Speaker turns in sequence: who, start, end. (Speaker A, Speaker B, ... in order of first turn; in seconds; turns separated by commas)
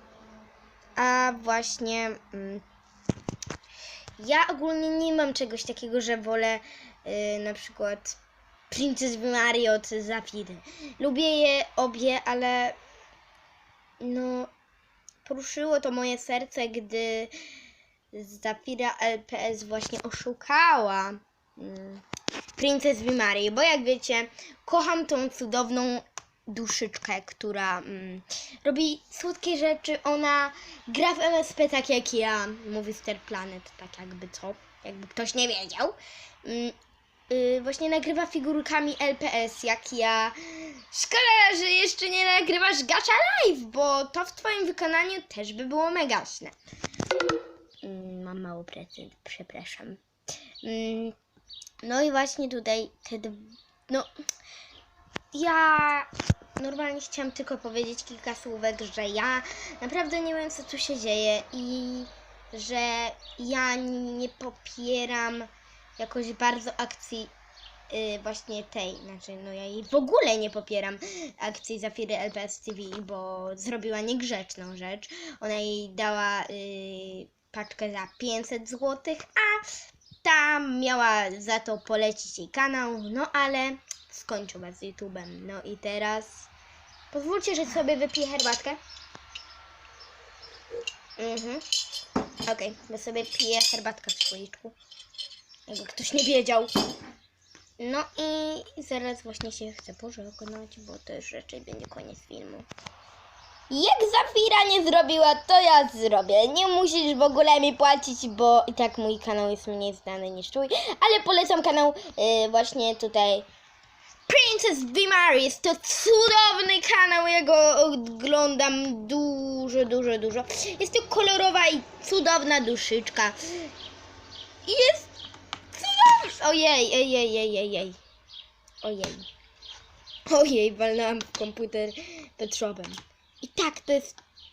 Speaker A: 1.0-2.6, Speaker A: 4.2-8.2, Speaker A: 8.7-12.8, Speaker A: 14.0-14.5, Speaker A: 15.2-17.3, Speaker A: 18.1-22.0, Speaker A: 22.6-36.8, Speaker A: 37.3-46.5, Speaker A: 47.8-50.0, Speaker A: 50.6-51.1, Speaker A: 51.8-54.1, Speaker A: 55.3-67.3, Speaker A: 67.9-79.7, Speaker A: 80.2-86.5, Speaker A: 87.1-88.8, Speaker A: 91.2-91.6, Speaker A: 92.5-94.8, Speaker A: 95.7-96.7, Speaker A: 97.8-102.7, Speaker A: 103.7-113.5, Speaker A: 114.3-123.4, Speaker A: 124.6-125.1, Speaker A: 125.7-128.0, Speaker A: 128.8-129.3, Speaker A: 130.3-134.2